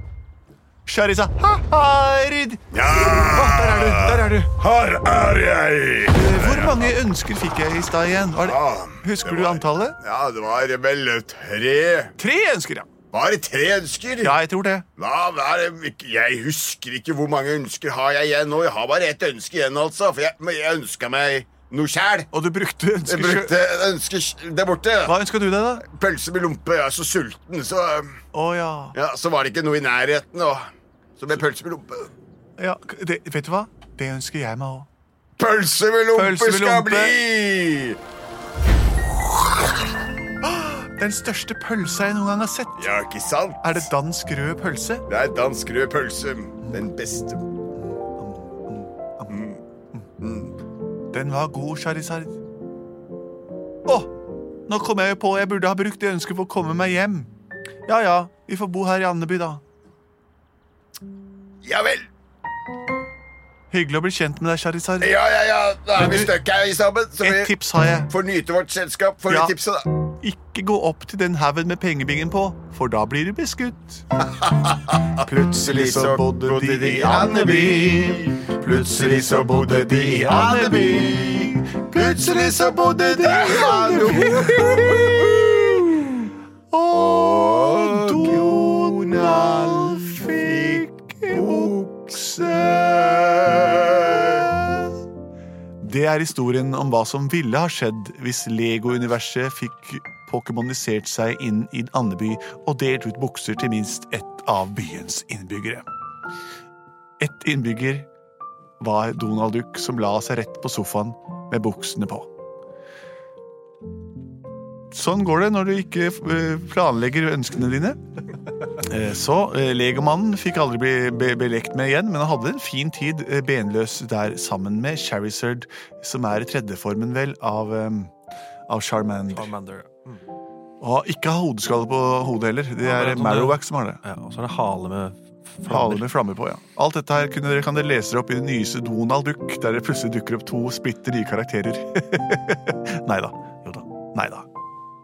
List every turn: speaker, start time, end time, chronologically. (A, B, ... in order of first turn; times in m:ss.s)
0:00.8-0:04.5 A
0:02.7-0:06.9 B
0:06.1-0:10.0 A
0:08.4-0:12.2 B
0:12.2-0:12.9 A
0:13.1-0:14.4 B
0:14.2-0:14.8 A
0:15.0-0:22.3 B
0:22.3-0:23.6 A
0:23.1-0:25.2 B
0:25.0-0:25.8 A
0:25.8-0:28.2 B
0:28.3-0:29.0 A
0:28.9-0:30.6 B
0:31.2-0:32.1 B
0:32.6-0:34.9 A
0:35.4-0:38.0 B
0:36.1-0:37.2 A
0:40.4-0:42.8 A
0:42.8-0:43.9 B
0:43.6-0:45.0 A
0:45.1-0:47.4 B
0:47.8-0:50.1 A
0:49.3-0:49.6 B
0:50.2-0:50.5 B
0:51.1-0:52.4 A
0:53.8-0:54.1 A
0:54.7-0:57.3 A
0:57.9-0:59.6 A
1:01.6-1:02.1 B
1:03.7-1:05.1 A
1:05.0-1:07.5 B
1:06.0-1:06.3 A
1:07.2-1:08.1 A
1:08.1-1:09.8 B
1:09.3-1:09.5 A
1:10.1-1:14.0 A
1:14.3-1:26.3 B
1:15.1-1:25.4 A
1:26.7-1:33.3 A
1:26.9-1:34.5 B
1:34.2-1:34.8 A
1:35.8-1:45.8 A
1:47.2-1:48.1 A
1:48.8-1:52.3 A
1:54.9-1:58.0 A
1:58.8-2:08.1 A
2:08.7-2:09.5 A
2:09.3-2:10.2 C
2:10.8-2:14.0 A
2:12.8-2:16.0 C
2:15.6-2:24.4 A